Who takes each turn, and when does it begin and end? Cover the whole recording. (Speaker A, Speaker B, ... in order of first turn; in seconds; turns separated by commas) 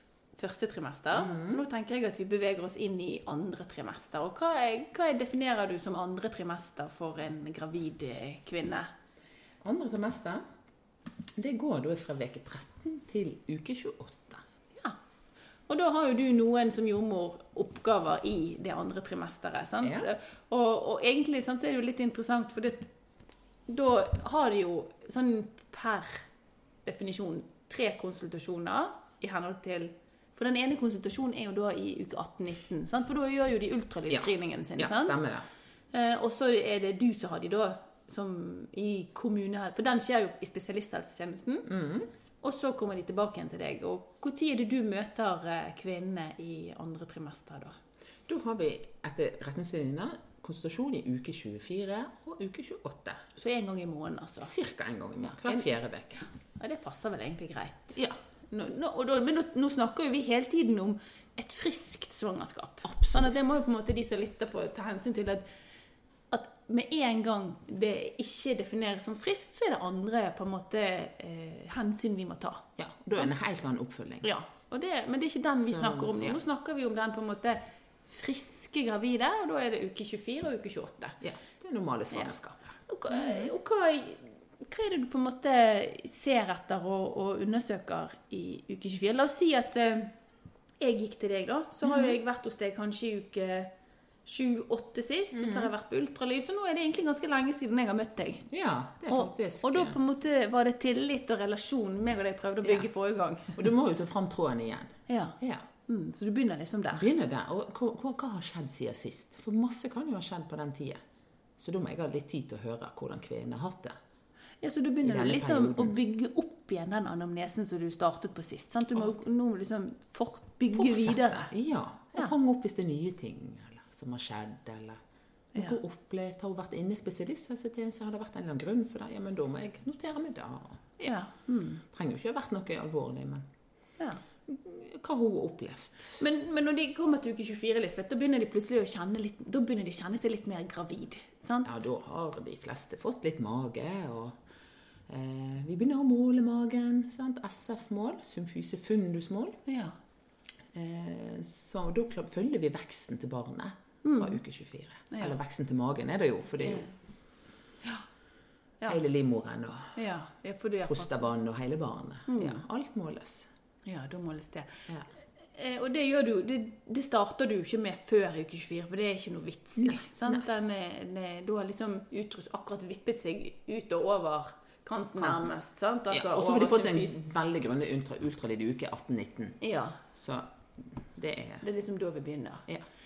Speaker A: 0.4-8.9, Speaker B: 1.1-1.6, Speaker B: 9.6-10.4, Speaker B: 11.4-14.4, Speaker A: 15.7-22.9, Speaker B: 19.8-20.1, Speaker A: 23.7-26.3, Speaker A: 26.9-35.2, Speaker B: 34.1-35.5, Speaker A: 35.9-41.7, Speaker B: 41.7-42.1, Speaker A: 42.4-47.8, Speaker B: 48.3-53.2, Speaker A: 53.4-54.5, Speaker B: 54.4-56.3, Speaker A: 55.2-55.7, Speaker A: 56.2-58.0, Speaker A: 58.5-65.4, Speaker B: 62.8-63.4, Speaker A: 66.3-72.7, Speaker B: 72.8-74.3, Speaker A: 74.2-81.2, Speaker B: 75.7-76.4, Speaker B: 81.2-83.5, Speaker A: 82.9-90.1, Speaker A: 90.8-93.7, Speaker B: 91.8-92.2, Speaker A: 94.2-98.5, Speaker B: 95.3-95.7, Speaker B: 98.5-100.0, Speaker A: 99.1-103.7, Speaker B: 103.5-105.7, Speaker A: 105.1-107.0, Speaker B: 106.9-111.0, Speaker B: 111.6-114.0, Speaker A: 114.6-121.5, Speaker B: 115.0-116.0, Speaker B: 120.7-125.0, Speaker B: 125.5-130.9, Speaker A: 131.0-131.8, Speaker B: 131.9-133.4, Speaker B: 134.5-136.2, Speaker A: 136.2-141.7, Speaker B: 141.7-144.3, Speaker B: 145.1-149.6, Speaker A: 149.7-150.0, Speaker B: 150.7-156.9, Speaker A: 154.0-154.4, Speaker A: 155.1-155.4, Speaker A: 156.6-156.9, Speaker B: 158.9-160.0, Speaker A: 160.0-161.3, Speaker B: 160.9-163.5, Speaker A: 162.3-162.6, Speaker A: 163.8-164.8, Speaker A: 165.5-177.2, Speaker B: 169.8-170.4, Speaker B: 175.2-175.4, Speaker B: 176.1-181.7, Speaker A: 179.6-180.0, Speaker A: 181.6-182.7